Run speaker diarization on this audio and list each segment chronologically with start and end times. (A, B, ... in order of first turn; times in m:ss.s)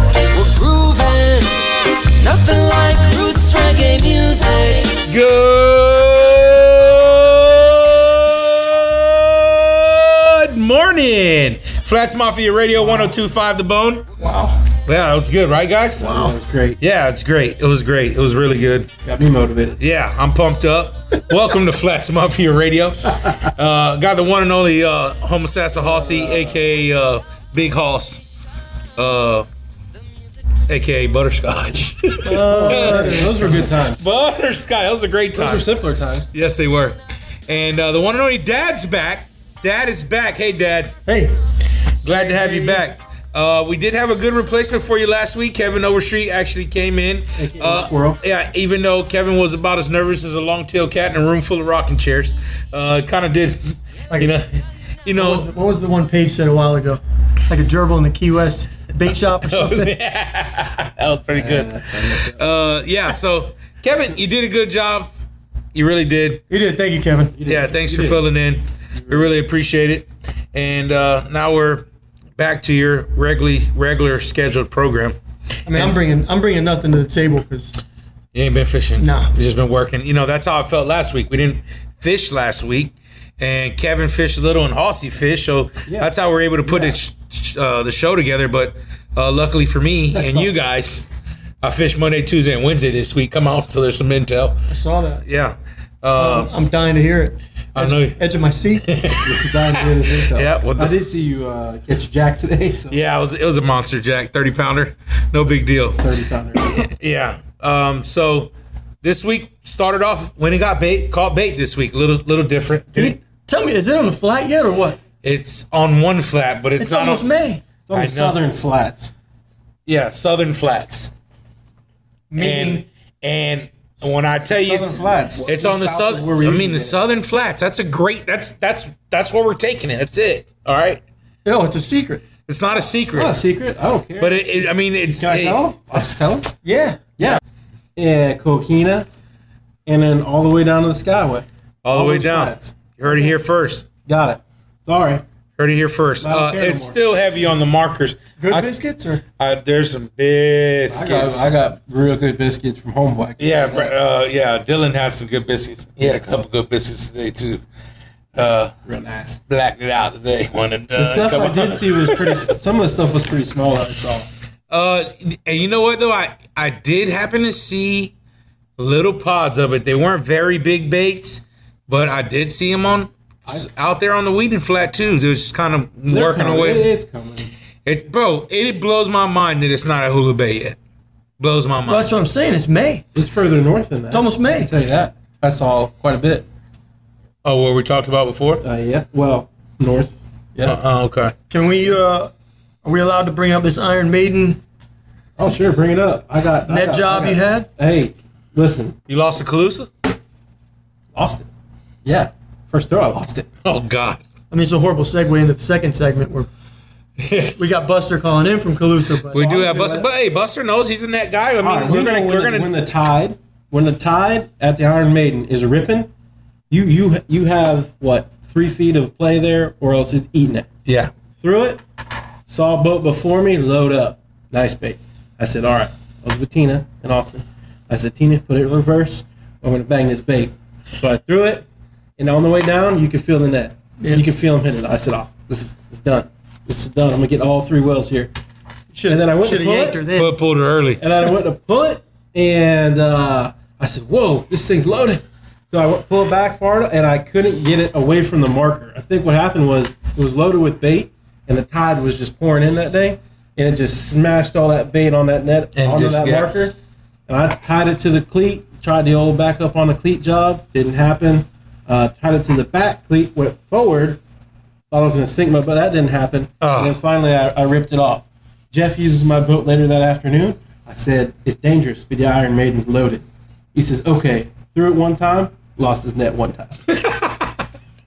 0:00.3-0:05.0 A
0:05.1-0:14.1 B
0:12.8-0:13.1 C
0:14.2-0:14.6 C
0:14.8-0:16.2 B
0:16.0-0:16.8 D
0:16.0-0:16.3 C
0:16.8-0:18.9 B
0:19.0-0:19.8 D
0:19.8-0:28.2 B
0:25.8-0:26.7 D
0:29.0-0:29.5 B
0:30.7-0:35.7 B
0:32.2-0:33.7 C
0:32.2-0:34.0 D
0:35.3-0:36.3 D
0:36.3-0:41.0 B
0:41.1-0:41.4 C
0:42.0-0:54.5 B
0:42.1-0:42.9 C
0:47.4-0:48.2 D
0:55.0-0:55.5 B
0:55.2-0:59.9 C
0:59.5-1:05.1 B
1:01.3-1:02.4 D
1:05.7-1:06.4 B
1:06.5-1:07.4 C
1:07.4-1:08.3 D
1:07.5-1:15.2 B
1:09.0-1:09.3 D
1:15.7-1:17.8 C
1:15.7-1:16.0 B
1:18.4-1:31.1 B
1:19.0-1:19.3 C
1:25.9-1:27.0 D
1:30.1-1:30.6 D
1:31.6-1:34.6 B
1:34.7-1:35.2 C
1:35.2-1:36.5 B
1:36.2-1:38.8 C
1:37.8-1:38.2 B
1:38.8-1:39.6 B
1:39.2-1:43.0 D
1:40.3-1:40.9 B
1:42.9-1:46.0 B
1:46.0-1:46.9 D
1:46.6-1:53.2 B
1:53.0-1:55.0 C
1:55.2-1:57.2 B
1:56.8-1:57.6 C
1:57.9-1:59.1 D
1:57.9-1:58.4 B
1:59.9-2:01.1 B
2:02.3-2:02.8 C
2:02.4-2:11.0 B
2:04.0-2:07.0 D
2:11.4-2:12.2 C
2:12.5-2:13.4 B
2:13.0-2:16.5 D
2:14.2-2:15.6 B
2:16.6-2:17.3 C
2:18.0-2:19.1 D
2:19.9-2:23.4 D
2:21.8-2:23.9 B
2:24.0-2:25.2 D
2:25.6-2:28.8 B
2:26.2-2:27.0 D
2:28.4-2:29.2 C
2:29.4-2:31.5 B
2:30.9-2:33.9 D
2:33.4-2:37.6 B
2:38.4-2:38.7 B
2:38.8-2:39.4 D
2:39.5-2:42.5 B
2:41.0-2:44.3 D
2:44.7-2:48.1 B
2:48.8-2:56.9 B
2:53.5-2:53.8 D
2:56.1-2:57.5 D
2:57.8-3:00.8 B
3:01.4-3:02.1 B
3:01.9-3:03.0 C
3:03.2-3:06.5 D
3:04.1-3:04.7 C
3:07.4-3:08.6 B
3:08.6-3:10.8 D
3:10.6-3:11.3 B
3:11.5-3:12.3 C
3:12.8-3:14.6 C
3:15.4-3:19.0 D
3:16.7-3:17.7 C
3:19.1-3:19.9 B
3:21.1-3:21.5 D
3:22.0-3:23.5 D
3:23.6-3:24.2 B
3:24.5-3:26.5 C
3:27.2-3:27.6 B
3:27.6-3:29.5 C
3:29.3-3:30.1 D
3:29.3-3:32.7 B
3:31.6-3:36.1 D
3:36.7-3:40.7 D
3:40.9-3:41.1 B
3:41.4-3:41.8 D
3:42.5-3:51.7 D
3:52.2-3:58.3 D
3:54.0-3:54.3 C
3:58.9-4:00.4 C
3:59.1-4:00.1 D
4:00.1-4:01.0 B
4:01.0-4:16.8 D
4:15.8-4:16.5 B
4:17.3-4:24.2 D
4:24.9-4:36.8 D
4:26.6-4:27.0 B
4:36.9-4:37.6 B